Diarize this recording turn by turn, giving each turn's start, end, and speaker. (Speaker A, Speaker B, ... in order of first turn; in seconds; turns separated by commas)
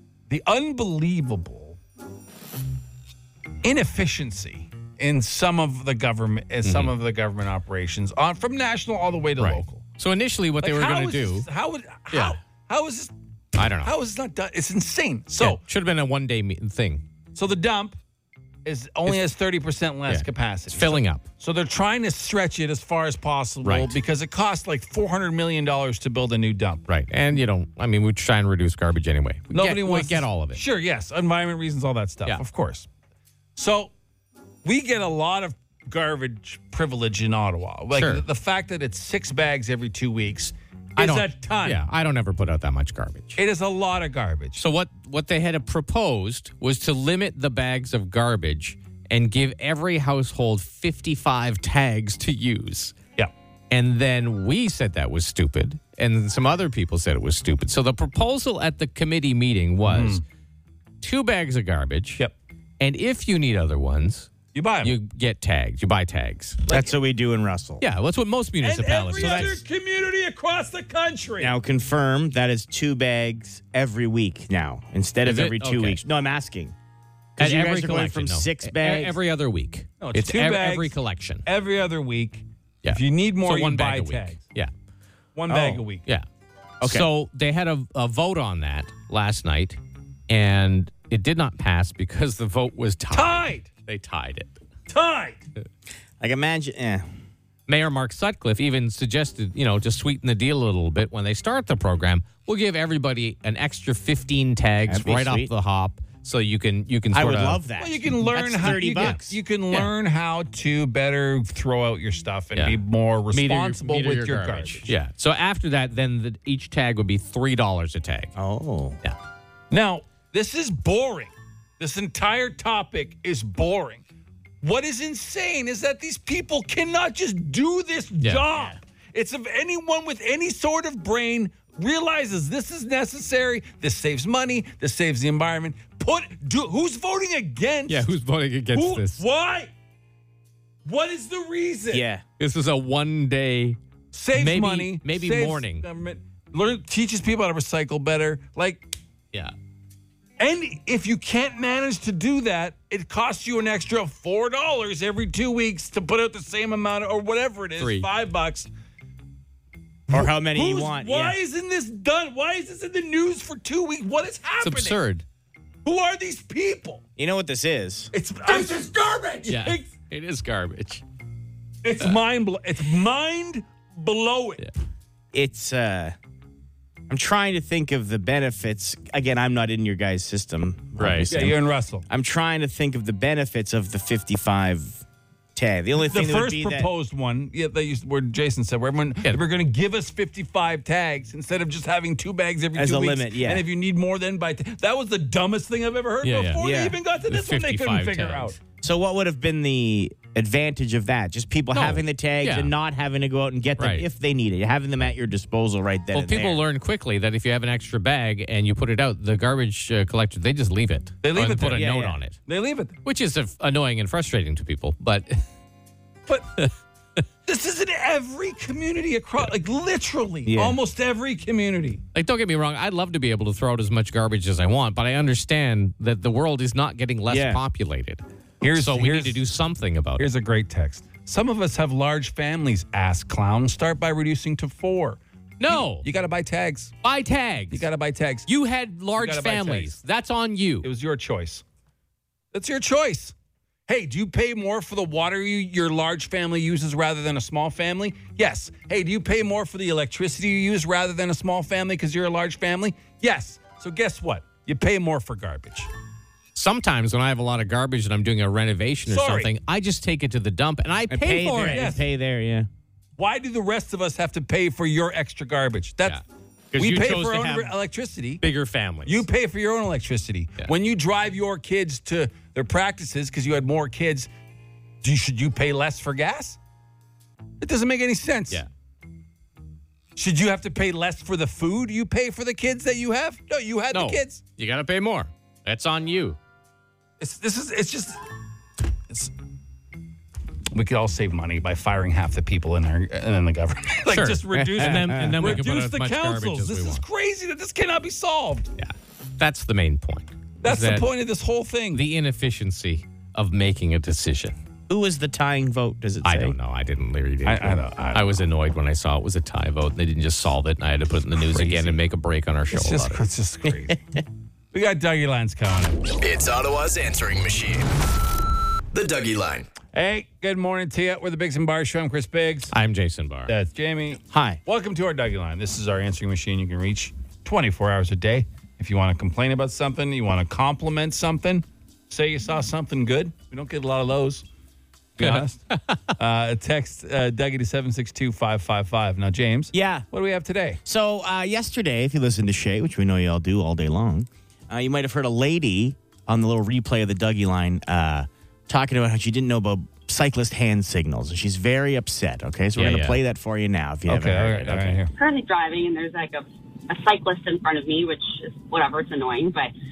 Speaker A: 0.3-1.8, Speaker A: 3.6-9.8, Speaker B: 6.6-6.9, Speaker B: 9.4-11.5, Speaker A: 10.6-13.1, Speaker B: 12.1-12.4, Speaker B: 13.6-13.9, Speaker A: 13.8-15.6, Speaker B: 15.3-17.1, Speaker A: 17.4-18.0, Speaker A: 18.6-26.9, Speaker B: 20.1-21.2, Speaker B: 23.6-24.0, Speaker B: 26.9-30.6, Speaker A: 29.5-32.9, Speaker A: 33.6-33.9, Speaker A: 34.6-41.8, Speaker B: 37.9-38.2, Speaker B: 41.0-43.4, Speaker A: 43.4-44.6, Speaker B: 44.6-53.0, Speaker B: 53.7-60.2, Speaker A: 59.9-60.2, Speaker B: 61.0-62.2, Speaker B: 62.8-66.7, Speaker A: 64.5-65.0, Speaker C: 66.7-67.8, Speaker B: 67.8-69.6, Speaker A: 68.6-71.5, Speaker C: 69.2-69.6, Speaker C: 71.4-76.8, Speaker B: 75.2-76.0, Speaker C: 77.4-79.2, Speaker B: 77.4-81.5, Speaker A: 80.0-84.4, Speaker B: 82.8-84.7, Speaker A: 85.3-86.1, Speaker C: 85.5-85.8, Speaker C: 86.8-87.1, Speaker B: 86.8-94.6, Speaker A: 93.1-93.7, Speaker A: 94.9-95.4, Speaker C: 96.2-97.1, Speaker B: 97.7-107.6, Speaker C: 104.9-105.5, Speaker C: 107.1-109.4, Speaker A: 107.8-114.9, Speaker B: 108.6-109.2, Speaker B: 112.5-112.8, Speaker B: 113.3-118.3, Speaker C: 118.4-119.0, Speaker A: 119.7-124.0, Speaker A: 124.6-138.1, Speaker B: 128.2-128.4, Speaker C: 128.5-128.8, Speaker B: 137.9-139.2, Speaker A: 138.7-139.7, Speaker A: 140.8-142.1, Speaker C: 141.9-142.2, Speaker B: 142.4-143.8, Speaker A: 144.1-148.9, Speaker B: 144.3-145.8, Speaker A: 150.4-158.7, Speaker B: 157.8-158.1, Speaker C: 160.1-161.4, Speaker A: 160.1-165.0, Speaker B: 164.6-165.2, Speaker A: 165.8-167.0, Speaker C: 167.2-168.1, Speaker A: 168.1-169.9, Speaker B: 169.4-171.0, Speaker A: 171.8-174.6, Speaker C: 175.3-176.2, Speaker C: 177.1-185.0, Speaker B: 181.0-181.4, Speaker A: 181.3-182.1, Speaker C: 185.6-186.9, Speaker A: 186.1-198.6, Speaker C: 192.7-193.7, Speaker B: 196.2-196.6, Speaker C: 196.6-197.0, Speaker B: 197.3-198.6, Speaker C: 198.8-206.6, Speaker B: 201.7-202.7, Speaker B: 203.8-204.1, Speaker B: 206.1-212.4, Speaker A: 211.2-211.9, Speaker C: 211.7-212.2, Speaker A: 212.5-213.0, Speaker B: 213.0-215.4, Speaker A: 217.5-222.0, Speaker C: 220.4-220.8, Speaker B: 222.2-228.2, Speaker C: 227.3-227.6, Speaker A: 228.6-229.4, Speaker B: 228.7-230.3, Speaker A: 230.2-235.2, Speaker B: 235.6-236.1, Speaker A: 235.7-237.0, Speaker B: 237.0-237.9, Speaker A: 237.7-238.5, Speaker B: 238.5-240.9, Speaker A: 239.2-239.9, Speaker A: 240.8-241.6, Speaker A: 242.5-243.3, Speaker A: 243.9-255.9, Speaker B: 256.6-261.9, Speaker A: 259.1-259.5, Speaker C: 261.1-262.7, Speaker A: 261.6-262.0, Speaker A: 263.2-266.2, Speaker B: 266.0-267.7, Speaker A: 266.8-268.4, Speaker B: 268.4-269.2, Speaker A: 269.1-274.3, Speaker A: 275.0-276.6, Speaker A: 277.6-278.6, Speaker A: 280.2-284.4, Speaker B: 283.9-286.4, Speaker A: 287.2-288.2, Speaker A: 290.7-298.7, Speaker B: 294.1-297.0, Speaker C: 294.5-295.6, Speaker B: 298.8-301.1, Speaker A: 300.6-302.0, Speaker B: 301.9-304.6, Speaker C: 304.9-306.6, Speaker B: 306.2-313.2, Speaker A: 307.4-308.4, Speaker A: 311.4-312.0, Speaker A: 312.7-314.0, Speaker A: 314.7-316.3, Speaker D: 316.2-317.9, Speaker D: 318.9-319.7, Speaker A: 319.9-322.7, Speaker B: 322.7-323.5, Speaker A: 323.5-334.4, Speaker C: 324.3-324.6, Speaker A: 335.2-340.8, Speaker B: 335.2-336.1, Speaker C: 339.7-340.1, Speaker C: 340.9-355.0, Speaker B: 352.8-353.2, Speaker A: 354.1-355.1, Speaker E: 355.2-359.7